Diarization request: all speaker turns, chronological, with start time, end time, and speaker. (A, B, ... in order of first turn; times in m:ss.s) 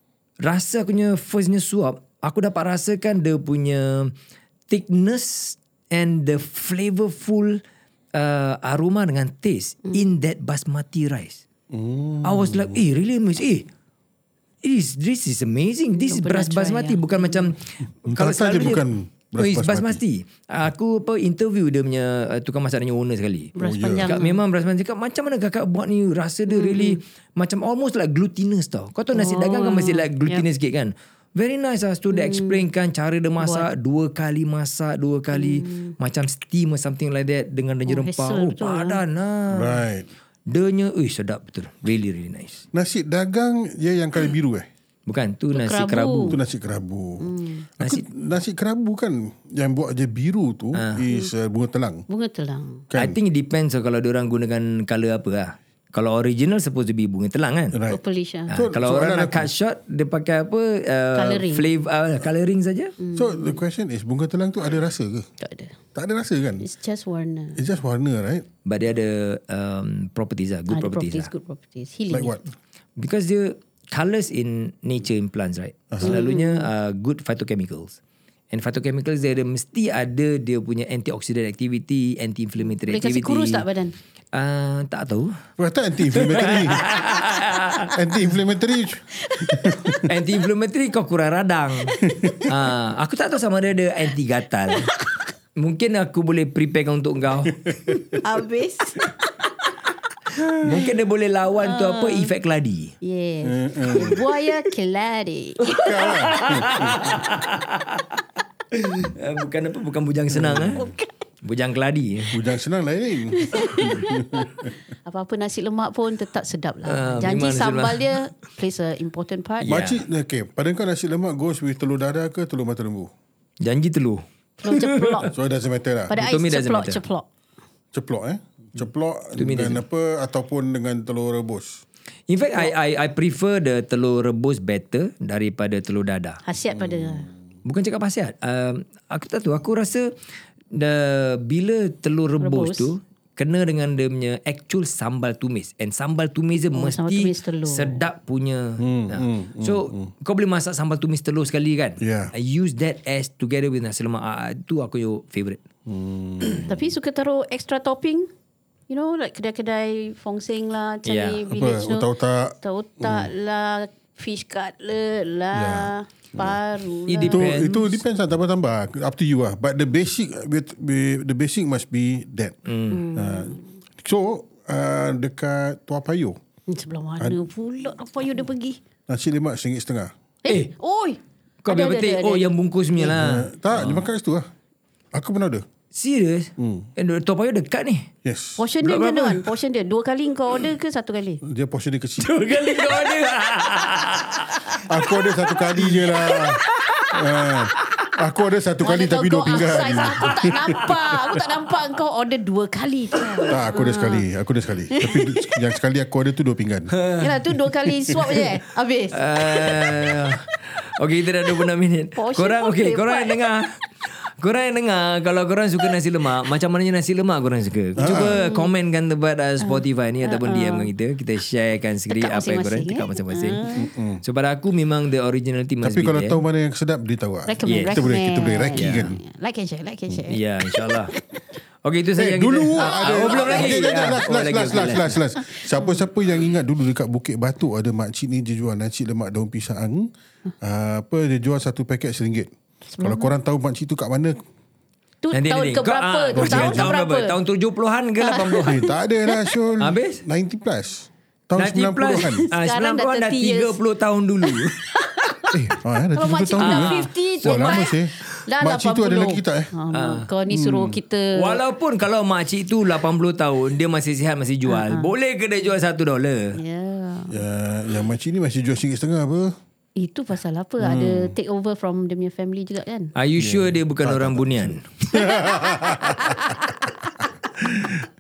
0:00.4-0:04.1 A
0:04.7-0:07.6 A
0:08.1-0:11.4 A
0:11.7-0:12.8 B
0:12.2-0:13.7 A
0:14.6-0:18.8 A
0:16.1-0:17.5 C
0:18.1-0:20.0 B
0:19.4-0:39.8 A
0:23.6-0:24.4 C
0:23.6-0:24.1 B
0:26.5-0:27.0 C
0:29.1-0:30.4 C
0:32.1-0:32.6 C
0:33.4-0:33.7 C
0:35.3-0:36.0 C
0:37.9-0:39.0 C
0:39.5-0:40.1 B
0:40.5-0:42.6 A
0:42.7-0:44.7 B
0:45.1-0:46.4 A
0:45.5-0:46.4 C
0:46.3-0:52.0 B
0:47.2-0:47.7 C
0:47.8-0:48.0 A
0:50.8-0:51.0 A
0:52.1-0:52.8 C
0:52.9-0:53.2 B
0:53.0-0:57.8 A
0:57.7-0:58.0 B
0:57.9-0:58.5 C
0:58.5-1:02.9 A
0:58.5-0:59.5 B
1:01.1-1:01.7 C
1:03.0-1:03.6 C
1:03.2-1:05.3 B
1:05.4-1:05.8 C
1:06.0-1:06.7 B
1:06.6-1:07.6 C
1:07.6-1:08.5 B
1:08.6-1:11.3 A
1:10.7-1:12.4 C
1:12.1-1:12.4 B
1:13.0-1:18.0 A
1:15.9-1:16.2 B
1:16.0-1:16.7 C
1:18.5-1:23.7 A
1:22.6-1:24.0 C
1:24.3-1:25.3 A
1:25.6-1:26.9 B
1:26.1-1:28.0 A
1:27.9-1:30.1 B
1:29.2-1:30.1 C
1:30.1-1:34.9 A
1:31.9-1:32.5 C
1:32.1-1:32.4 B
1:35.6-1:38.0 A
1:37.5-1:38.2 B
1:38.2-1:39.7 C
1:40.4-1:40.9 B
1:40.4-1:43.0 A
1:41.6-1:42.3 C
1:43.0-1:46.0 C
1:43.4-1:44.2 B
1:45.6-1:48.1 A
1:45.7-1:47.0 B
1:48.7-1:50.8 A
1:50.3-1:50.9 B
1:50.8-1:51.0 C
1:51.4-1:52.4 A
1:52.3-1:54.7 B
1:53.3-1:59.7 C
1:56.9-1:58.2 A
1:59.6-2:00.0 A
1:59.7-2:03.1 B
2:03.6-2:05.3 A
2:04.6-2:05.3 C
2:05.2-2:06.2 B
2:06.1-2:07.3 C
2:06.1-2:07.0 A
2:07.9-2:11.8 B
2:09.4-2:09.8 A
2:12.3-2:16.4 A
2:16.4-2:17.3 C
2:16.8-2:17.1 B
2:17.6-2:20.1 A
2:20.7-2:35.6 A
2:22.4-2:22.9 C
2:26.7-2:28.0 C
2:28.8-2:30.1 B
2:32.0-2:32.3 B
2:35.9-2:36.7 B
2:36.4-2:38.3 C
2:38.9-2:42.1 C
2:41.1-2:41.4 A
2:41.5-2:43.3 B
2:42.6-2:47.5 C
2:45.5-2:46.6 B
2:47.1-2:48.0 A
2:47.3-2:52.6 B
2:52.7-2:53.1 A
2:52.9-2:53.7 C
2:53.1-2:56.4 B
2:56.7-2:58.8 C
2:59.1-3:00.1 B
3:00.4-3:02.6 C
3:01.6-3:04.1 A
3:03.0-3:04.5 B
3:05.1-3:05.6 B
3:05.9-3:08.1 A
3:06.6-3:06.9 B
3:08.2-3:08.6 B
3:08.6-3:11.4 C
3:08.8-3:09.6 A
3:11.4-3:12.4 B
3:12.2-3:14.8 A
3:14.8-3:16.6 B
3:15.5-3:18.2 C
3:17.1-3:21.4 B
3:18.8-3:24.2 C
3:23.5-3:26.9 B
3:24.9-3:25.6 C
3:26.9-3:28.5 A
3:27.2-3:30.1 C
3:29.1-3:43.6 A
3:32.2-3:33.4 C
3:38.0-3:38.4 B
3:38.0-3:38.7 C
3:39.6-3:40.9 C
3:42.1-3:43.9 C
3:43.7-3:44.2 B
3:44.2-3:46.4 A
3:45.8-3:49.2 B
3:47.5-3:51.3 C
3:47.7-3:48.1 A
3:48.8-3:49.2 A
3:50.3-3:51.1 A
3:51.8-3:55.2 A
3:52.2-4:00.1 B
3:52.8-3:54.0 C
3:55.5-3:56.0 C
4:00.6-4:04.4 B
4:02.9-4:03.3 C
4:05.2-4:07.4 C
4:05.3-4:08.8 A
4:06.4-4:06.9 B
4:08.2-4:09.5 C
4:08.6-4:12.5 B
4:09.8-4:10.2 A
4:11.6-4:14.8 A
4:12.3-4:13.8 C
4:14.4-4:21.6 C
4:15.5-4:19.7 B
4:16.6-4:17.9 A
4:19.9-4:20.3 A
4:20.5-4:21.0 B
4:21.4-4:26.6 A
4:24.7-4:25.1 C
4:26.6-4:27.4 C
4:27.3-4:29.6 B
4:30.0-4:33.1 C
4:30.8-4:31.3 B
4:33.2-4:35.2 A
4:33.4-4:36.8 B
4:35.1-4:37.2 C
4:37.6-4:38.1 B